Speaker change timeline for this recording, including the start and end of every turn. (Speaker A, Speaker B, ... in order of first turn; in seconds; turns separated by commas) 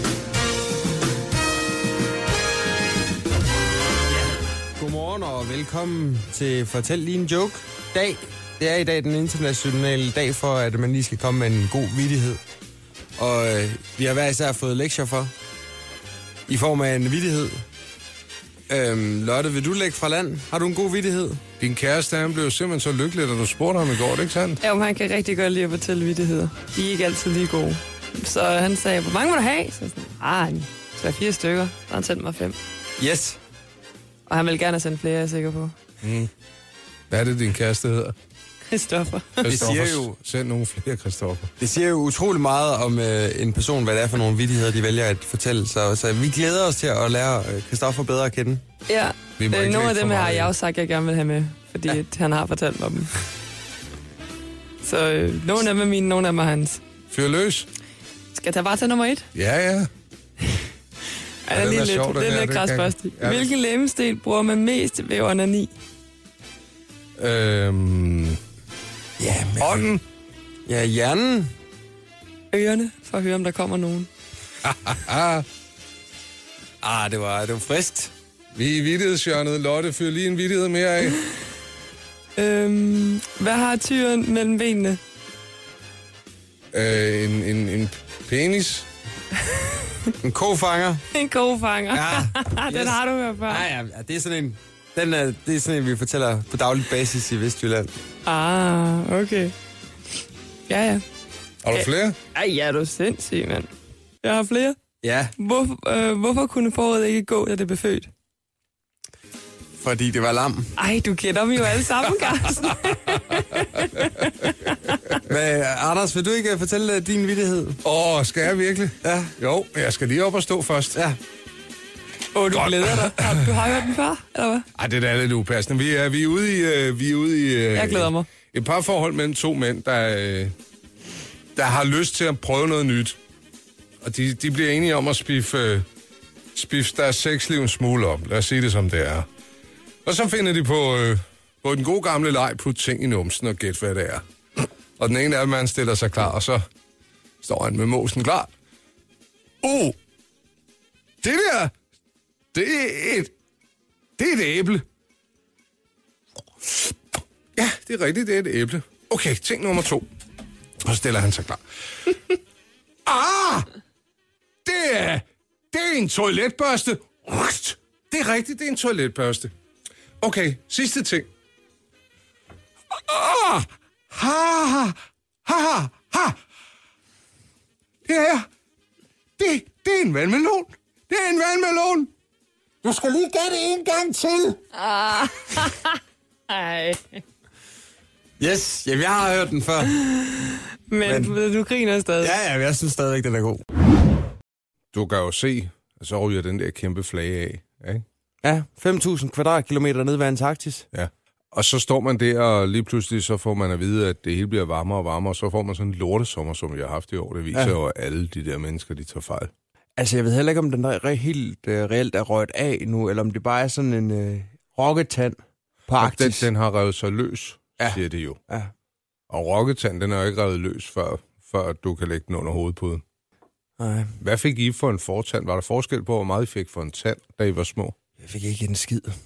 Speaker A: 4.8-12.4, Speaker A: 13.2-15.3, Speaker A: 16.5-17.6, Speaker A: 18.7-21.4, Speaker B: 21.6-24.6, Speaker C: 24.6-32.6, Speaker A: 33.0-33.4, Speaker C: 34.3-35.7, Speaker B: 36.0-36.3, Speaker B: 37.1-38.1, Speaker C: 38.7-39.5, Speaker B: 39.4-41.5, Speaker A: 39.5-40.2, Speaker A: 41.6-48.6, Speaker C: 48.9-53.2, Speaker B: 49.4-50.5, Speaker C: 54.8-56.8, Speaker B: 57.1-57.7, Speaker C: 58.4-59.3, Speaker B: 59.3-59.9, Speaker C: 61.5-65.7, Speaker B: 61.5-63.5, Speaker B: 67.2-68.4, Speaker A: 69.2-70.0, Speaker B: 69.6-70.0, Speaker A: 70.7-71.5, Speaker C: 72.5-74.1, Speaker B: 74.6-75.5, Speaker A: 76.8-78.1, Speaker B: 78.5-81.2, Speaker C: 82.4-85.0, Speaker B: 86.7-88.9, Speaker C: 89.7-90.1, Speaker A: 90.2-91.0, Speaker C: 91.1-93.7, Speaker A: 91.9-97.9, Speaker C: 98.3-99.5, Speaker C: 100.7-101.0, Speaker B: 101.6-102.2, Speaker C: 101.7-103.7, Speaker C: 104.2-104.8, Speaker A: 105.0-105.3, Speaker C: 105.4-108.1, Speaker A: 109.8-110.7, Speaker C: 110.8-115.0, Speaker B: 113.1-113.4, Speaker B: 113.9-114.5, Speaker A: 115.2-117.8, Speaker B: 117.8-121.0, Speaker A: 119.0-119.3, Speaker C: 122.3-124.7, Speaker B: 122.5-123.5, Speaker B: 124.8-130.5, Speaker C: 127.8-128.3, Speaker B: 131.6-133.2, Speaker B: 134.0-135.9, Speaker B: 136.5-139.3, Speaker B: 140.1-146.6, Speaker B: 147.4-148.5, Speaker B: 149.6-150.0, Speaker B: 151.2-151.7, Speaker B: 152.5-153.3, Speaker B: 154.2-154.8, Speaker B: 156.7-156.9, Speaker B: 157.6-160.1, Speaker B: 160.8-162.2, Speaker B: 163.1-163.7, Speaker B: 164.7-169.5, Speaker B: 170.2-171.3, Speaker B: 172.9-176.4, Speaker B: 178.1-178.5, Speaker B: 179.4-182.1, Speaker A: 182.8-184.6, Speaker C: 184.7-186.0, Speaker C: 186.5-187.2, Speaker A: 188.4-190.0, Speaker C: 189.9-192.3, Speaker A: 191.1-191.4, Speaker A: 192.2-193.6, Speaker B: 194.9-198.1, Speaker A: 198.4-200.9, Speaker B: 200.9-209.5, Speaker A: 210.0-216.5, Speaker B: 216.0-218.4, Speaker A: 217.8-218.7, Speaker B: 219.3-223.0, Speaker A: 223.8-224.2, Speaker B: 224.2-227.9, Speaker A: 228.2-229.2